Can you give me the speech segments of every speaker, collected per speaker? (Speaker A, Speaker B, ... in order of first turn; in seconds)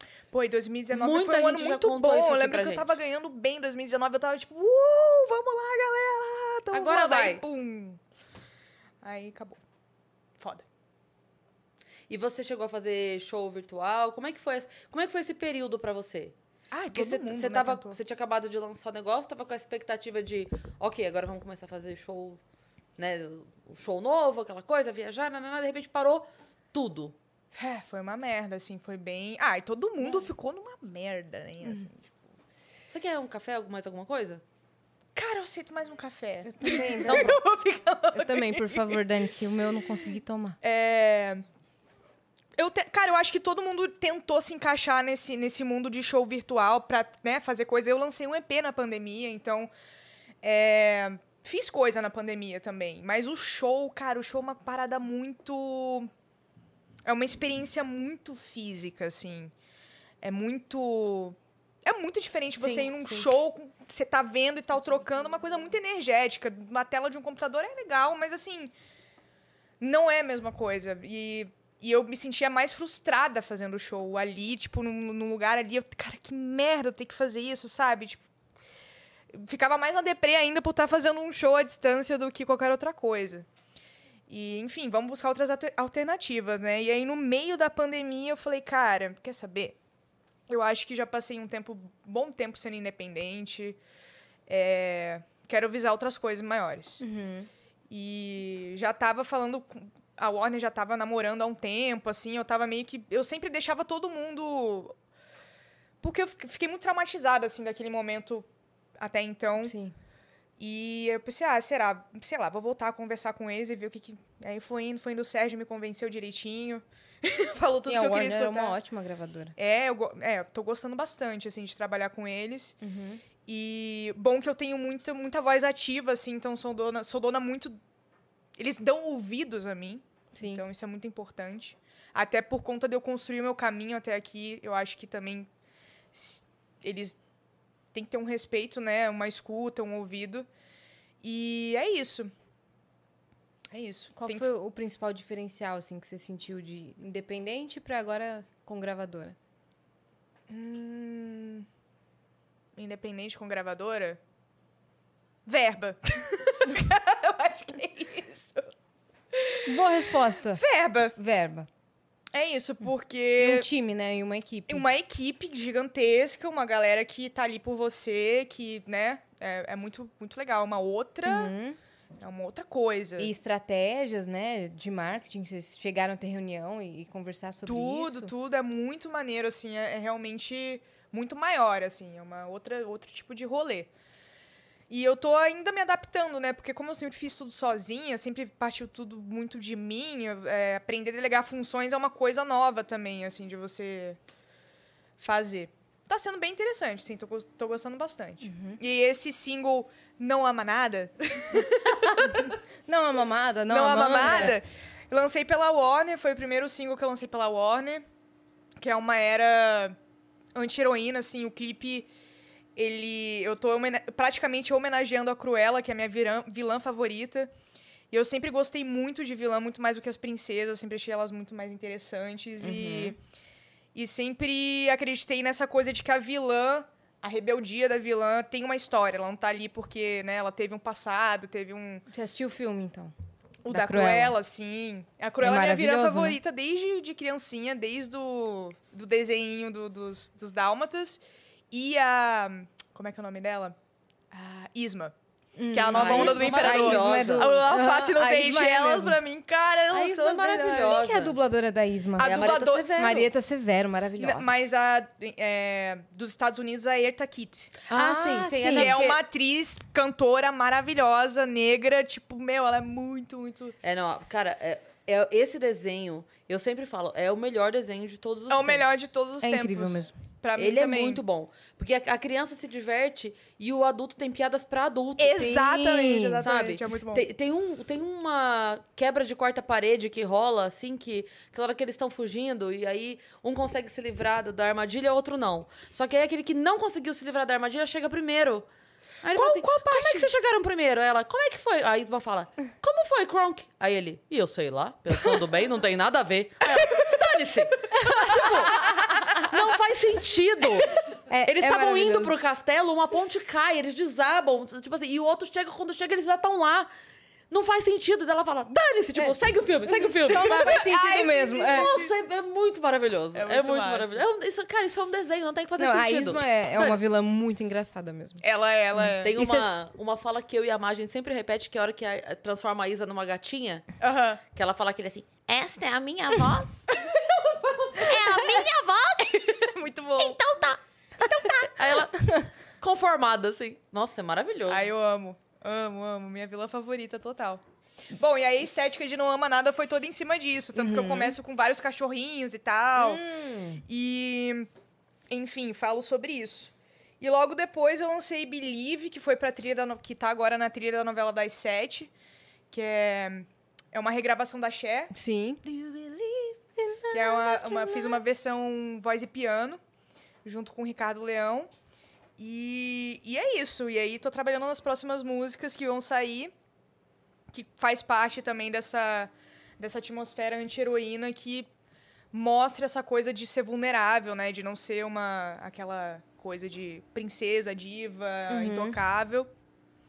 Speaker A: 0.3-8.0, 9.0-9.6, 10.4-10.6, 16.7-18.0, 27.5-32.2, 35.1-39.2, 40.6-41.4, 42.5-49.7, 50.4-56.1, 57.0-59.5, 60.2-68.7, 69.8-78.2, 79.3-83.5, 84.3-89.8, 90.5-93.8, 94.5-97.0, 97.9-104.9, 106.0-108.5, 109.0-109.7, 110.6-118.8, 119.6-122.8, 123.4-127.8, 128.6-135.5, 136.1-137.2, 137.9-140.5, 141.2-142.3, 143.7-144.5, 150.5-151.7, 152.7-154.2, 155.4-158.7, 159.3-159.9, 160.5-161.1, 162.3-163.7, 164.7-171.5, 172.2-173.3, 177.7-183.9, 184.9-194.2, 195.2-202.5, 203.7-208.1, 208.8-210.0, 210.5-212.1, 212.8-217.5, 218.1-223.2, 223.9-232.1, 233.6-243.8, 244.3-245.1, 245.7-251.0, 252.2-253.0, 254.2-257.7, 258.7-263.8, 268.5-271.2, 275.2-277.2, 289.3-290.3, 296.7-297.1, 310.3-312.1, 313.3-314.2, 318.4-319.4, 324.0-324.4, 326.9-328.6, 329.2-330.4, 331.2-331.7, 334.7-337.6, 338.1-343.2, 343.8-344.7, 345.3-352.1, 352.7-355.1, 355.6-356.6, 357.1-359.8, 360.4-361.7, 362.4-366.5, 367.5-371.7, 372.3-379.5
Speaker B: 0.9-2.9, 6.7-7.4, 12.1-16.3, 16.9-22.4, 23.0-27.1, 32.9-34.4, 37.1-37.4, 62.6-63.3, 245.9-247.5, 249.9-251.4, 252.2-253.3, 257.9-259.2, 263.8-268.9, 270.6-275.8, 276.4-288.7, 289.2-300.9, 301.4-306.9, 307.5-310.8, 311.7-317.0, 319.2-323.8, 324.5-326.9, 327.9-329.4, 330.2-334.9
Speaker C: 36.4-37.4, 38.1-40.6, 97.0-97.5, 109.6-109.9, 117.9-119.5, 122.8-123.2, 130.3-130.6, 144.1-149.3, 159.6-160.6, 161.2-161.7, 163.4-164.8, 171.2-171.8, 173.2-178.3, 198.4-198.8, 202.2-204.6, 222.6-223.1, 232.1-233.1, 233.7-234.3, 235.4-236.4, 245.6-249.2, 250.8-254.5, 257.9-258.9, 269.4-270.1, 275.4-276.4, 301.3-302.4, 309.9-311.9, 315.8-318.4, 319.0-319.7, 340.7-341.4, 342.9-343.8, 355.1-355.6, 356.9-358.1, 378.5-379.0